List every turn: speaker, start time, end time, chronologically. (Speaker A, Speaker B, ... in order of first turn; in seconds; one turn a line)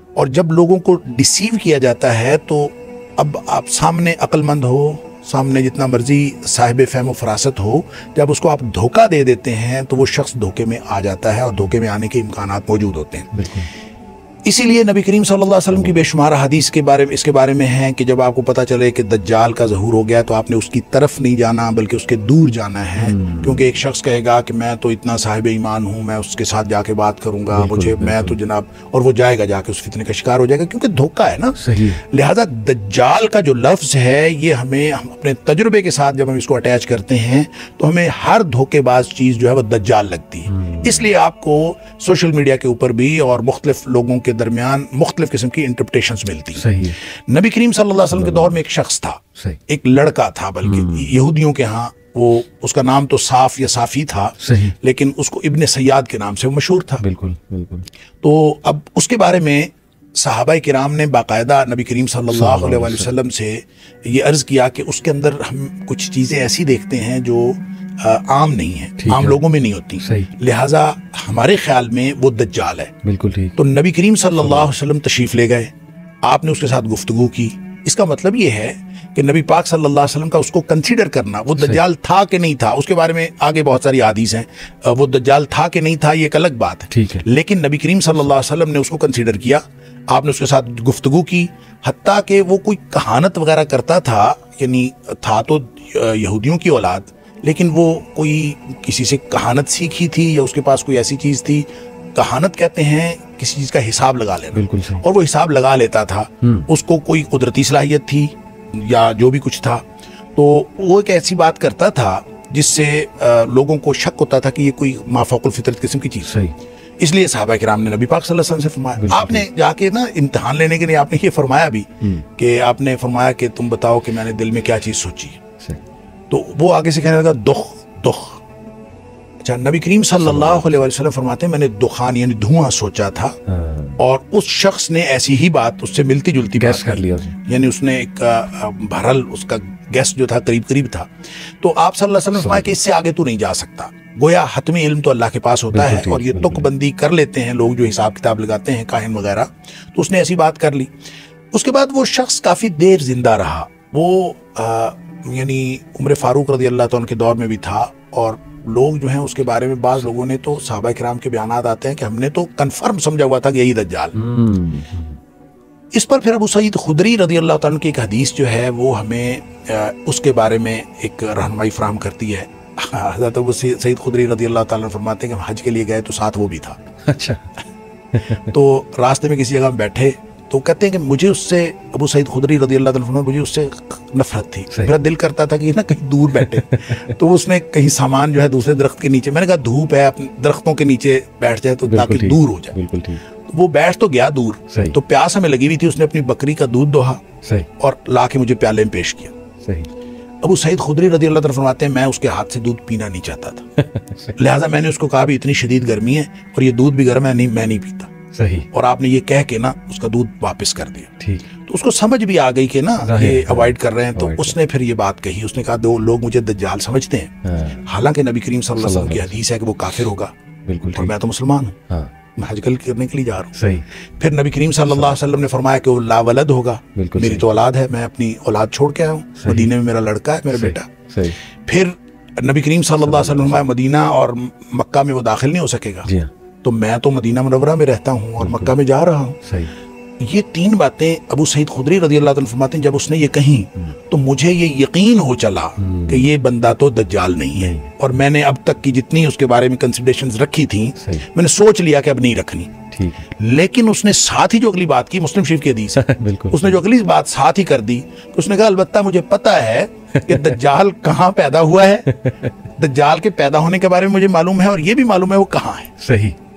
Speaker A: 0.1-13.3
Speaker B: 13.3-13.7
Speaker A: 14.4-57.0
Speaker B: 15.7-16.0
Speaker B: 23.0-23.6
Speaker B: 27.5-28.4
Speaker B: 31.6-32.0
Speaker B: 40.5-41.1
Speaker B: 46.5-47.0
Speaker B: 48.1-48.6
Speaker B: 50.6-51.1
Speaker B: 54.4-54.8
Speaker B: 57.0-57.9
Speaker A: 58.2-72.9
Speaker B: 62.3-63.1
Speaker B: 69.0-69.4
Speaker B: 70.0-70.3
Speaker B: 73.0-73.5
Speaker A: 73.6-75.7
Speaker B: 74.4-74.7
Speaker A: 76.2-109.8
Speaker B: 86.9-87.2
Speaker B: 104.5-105.0
Speaker B: 106.4-106.7
Speaker A: 110.3-116.3
Speaker B: 116.2-116.5
Speaker A: 117.0-125.4
Speaker B: 119.0-119.5
Speaker A: 126.3-128.4
Speaker A: 129.4-133.3
Speaker B: 130.2-130.8
Speaker B: 133.5-134.0
Speaker A: 134.0-150.9
Speaker B: 136.6-137.3
Speaker B: 142.4-142.8
Speaker B: 145.7-146.7
Speaker A: 151.5-164.2
Speaker B: 164.2-165.2
Speaker A: 165.9-176.8
Speaker B: 177.0-177.4
Speaker B: 178.2-178.5
Speaker A: 178.3-192.8
Speaker B: 186.4-187.1
Speaker B: 191.9-193.2
Speaker A: 193.4-197.2
Speaker B: 194.7-195.0
Speaker B: 197.4-197.7
Speaker A: 197.8-199.3
Speaker B: 199.6-199.9
Speaker A: 200.4-203.7
Speaker B: 203.8-204.3
Speaker A: 204.3-208.1
Speaker B: 208.3-208.7
Speaker A: 208.7-211.1
Speaker B: 211.2-211.4
Speaker A: 211.7-220.3
Speaker B: 213.0-214.6
Speaker B: 217.4-217.8
Speaker B: 218.8-219.4
Speaker B: 220.7-221.1
Speaker A: 220.9-221.8
Speaker A: 222.3-223.5
Speaker B: 223.5-223.8
Speaker A: 224.1-230.9
Speaker B: 226.9-227.5
Speaker B: 229.4-229.7
Speaker B: 230.5-231.4
Speaker A: 231.6-236.1
Speaker B: 233.0-233.6
Speaker B: 236.0-236.3
Speaker A: 236.6-239.4
Speaker B: 238.4-238.7
Speaker B: 239.4-239.7
Speaker A: 240.2-252.7
Speaker B: 245.8-246.3
Speaker B: 247.6-247.9
Speaker B: 251.0-251.2
Speaker B: 252.9-253.2
Speaker A: 253.2-262.1
Speaker B: 255.9-256.8
Speaker B: 260.2-260.6
Speaker B: 262.1-262.5
Speaker A: 262.8-265.9
Speaker B: 266.0-266.4